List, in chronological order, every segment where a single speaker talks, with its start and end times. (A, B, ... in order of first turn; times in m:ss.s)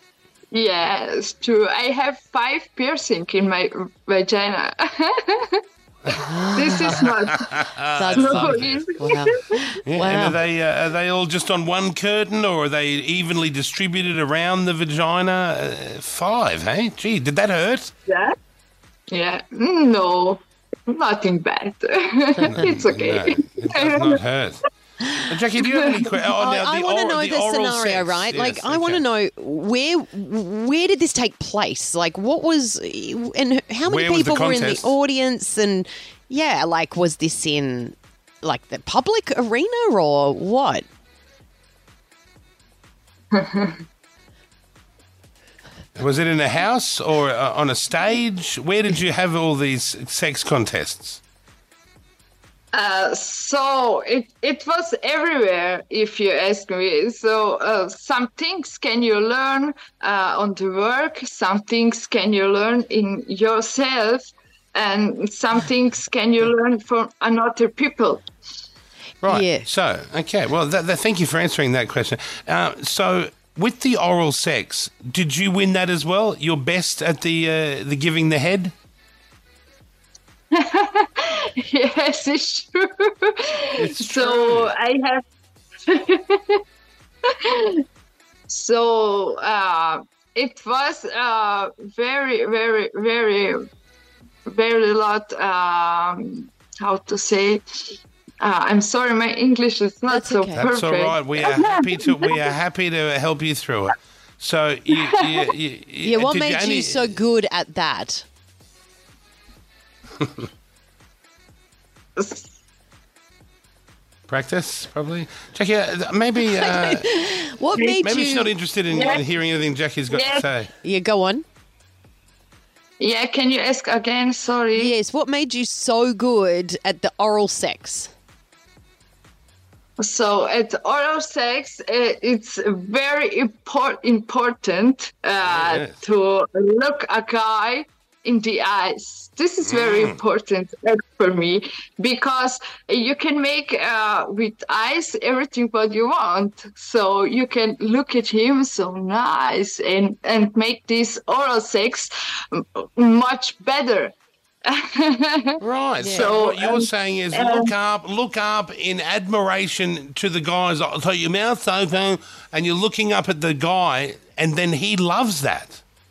0:00.5-0:07.5 A
0:06.1-0:07.2 B
0:06.9-0:08.8 C
0:07.9-0:10.4 B
0:08.1-0:09.6 A
0:09.8-0:17.9 C
0:18.1-0:18.4 A
0:19.1-0:24.2 A
0:22.4-0:24.6 C
0:25.2-0:29.0 C
0:25.6-0:26.1 A
0:26.3-0:40.8 B
0:33.8-0:35.0 C
0:43.3-0:43.8 A
0:46.0-0:51.2 C
0:52.7-1:08.2 A
1:09.2-1:18.7 C
1:09.2-1:09.7 B
1:20.5-1:25.2 A
1:23.8-1:24.7 C
1:25.9-1:26.6 A
1:27.4-1:27.8 A
1:28.5-1:33.6 A
1:34.5-1:42.5 A
1:40.1-1:40.7 B
1:40.6-1:47.2 C
1:44.9-1:45.5 A
1:46.0-1:48.2 B
1:52.2-1:52.5 A
1:54.3-1:57.1 C
1:56.4-1:58.5 B
1:57.7-1:58.0 A
1:58.0-2:00.7 C
1:58.9-1:59.2 A
2:00.1-2:00.4 A
2:00.8-2:01.4 B
2:03.0-2:05.0 A
2:04.7-2:08.1 B
2:10.0-2:34.1 A
2:15.4-2:16.0 C
2:19.6-2:20.2 C
2:34.6-2:35.6 A
2:35.6-2:45.8 C
2:36.0-2:36.4 B
2:36.1-2:37.7 A